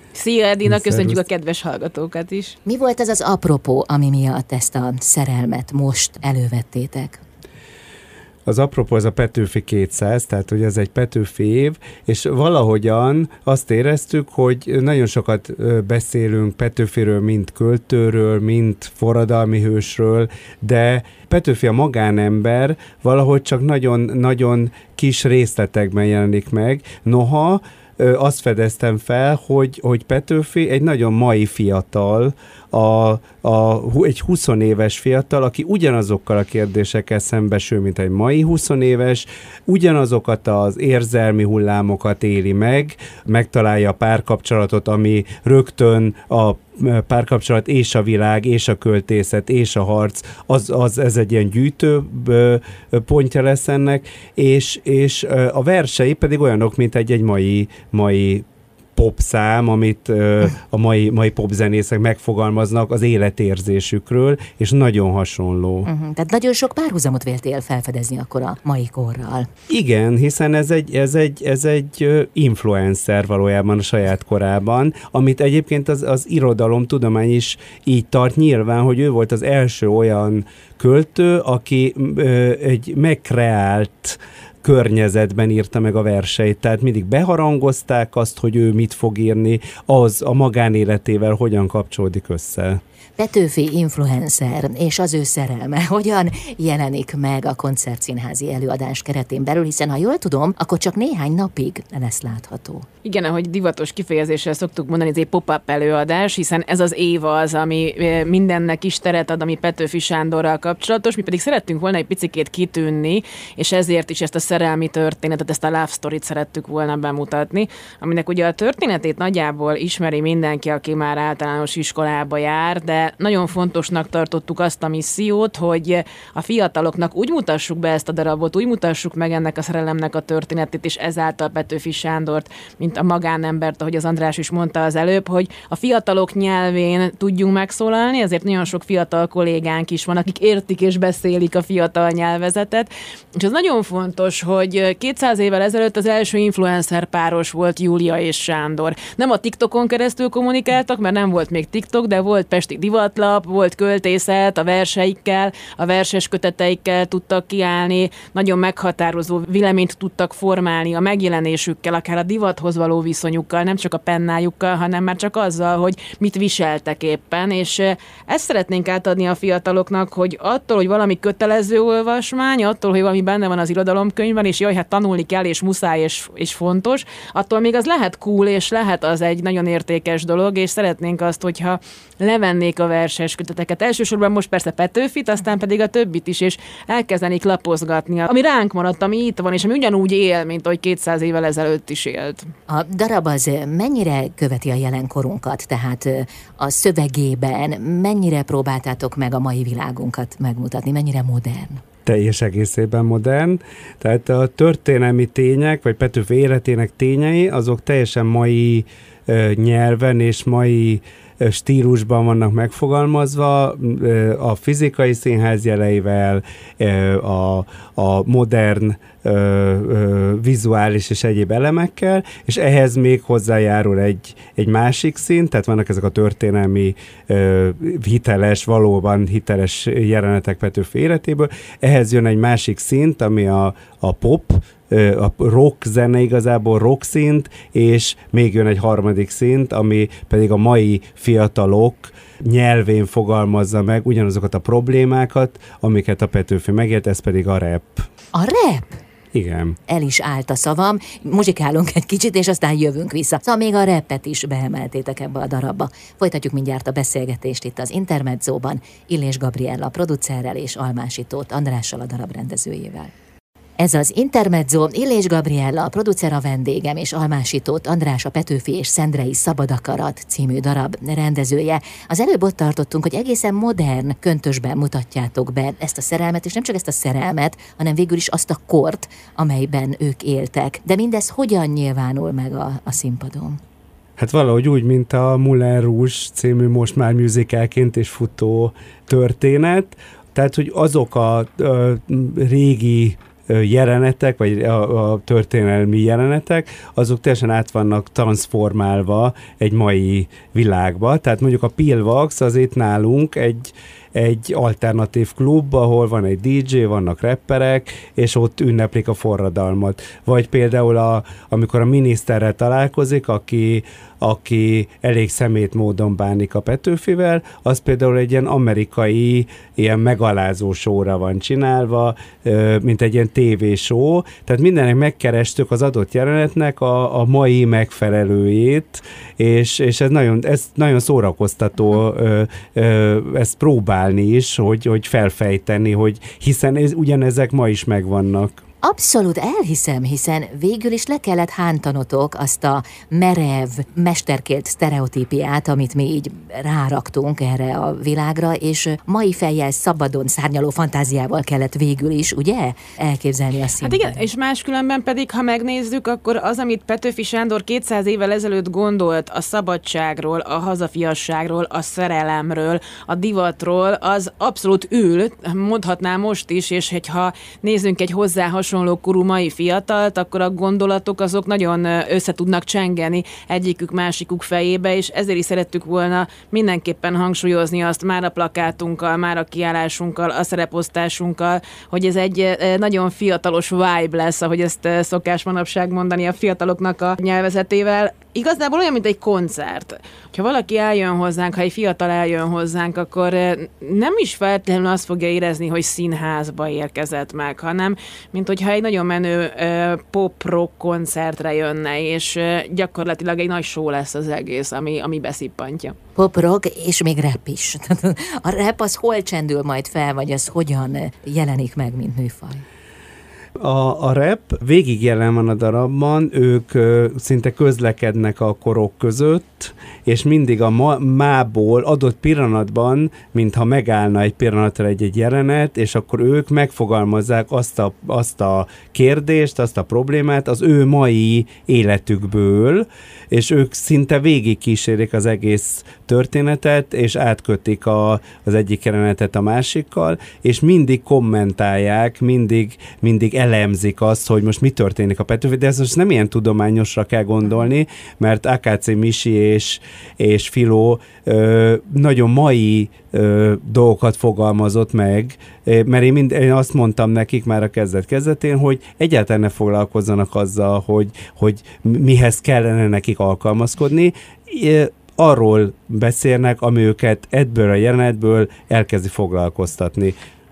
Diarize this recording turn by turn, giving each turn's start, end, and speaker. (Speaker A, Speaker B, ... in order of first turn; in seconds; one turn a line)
Speaker A: 0.1-2.6
Speaker B: 0.7-1.2
Speaker C: 2.7-7.2
Speaker B: 8.5-58.5
Speaker B: 59.0-65.9
Speaker C: 65.8-69.5
Speaker B: 69.7-92.8
Speaker C: 93.2-102.9
Speaker A: 103.0-192.5
Speaker C: 192.7-201.8
Speaker B: 202.1-248.1
Speaker C: 248.3-249.0
Speaker B: 249.3-249.8
Speaker C: 249.9-263.1
Speaker C: 263.8-283.6
Speaker B: 284.2-338.6
Speaker C: 338.8-354.2
Speaker A: 353.8-406.0
Speaker C: 406.2-412.6
Speaker B: 413.6-470.2